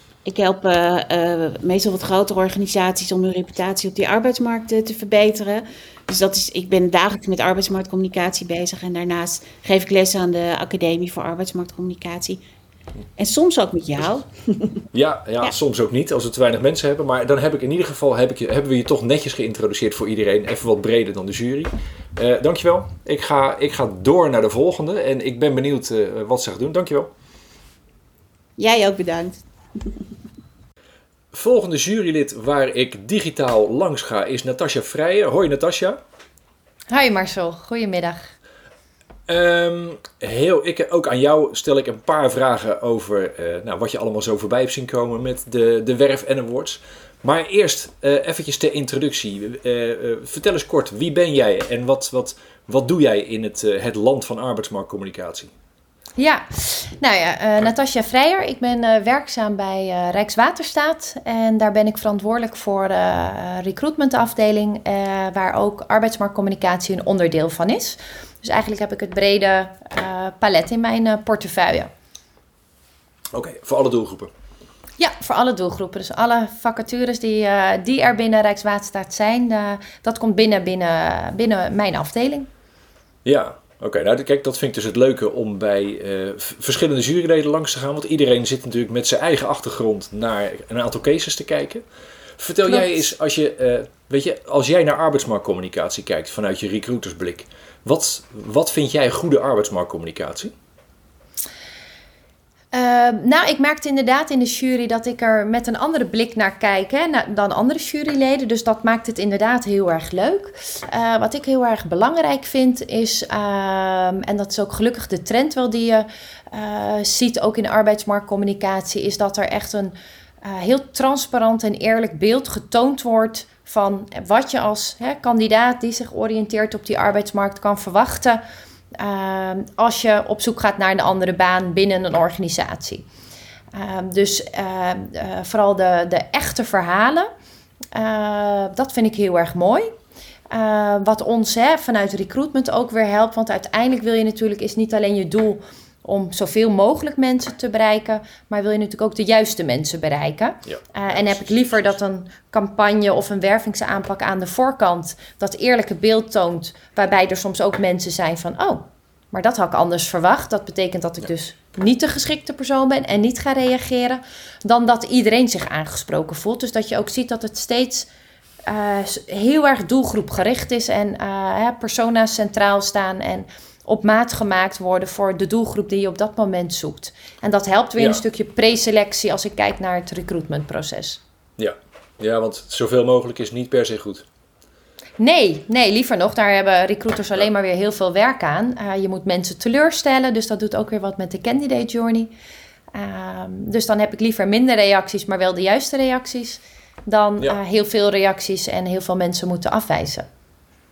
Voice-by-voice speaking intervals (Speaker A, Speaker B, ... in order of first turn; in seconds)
Speaker A: 0.2-12.4, 13.2-14.8, 28.6-30.0
Speaker B: 14.9-27.1, 31.3-36.0, 39.3-55.5, 73.3-74.3, 83.2-91.8, 92.4-100.5, 150.7-151.9, 181.6-184.2
Speaker C: 36.9-38.3, 56.2-71.9, 75.0-82.5, 102.7-128.4, 129.0-133.1, 133.7-137.3, 137.9-139.9, 140.5-168.1, 168.7-181.2, 185.2-192.3, 192.9-200.2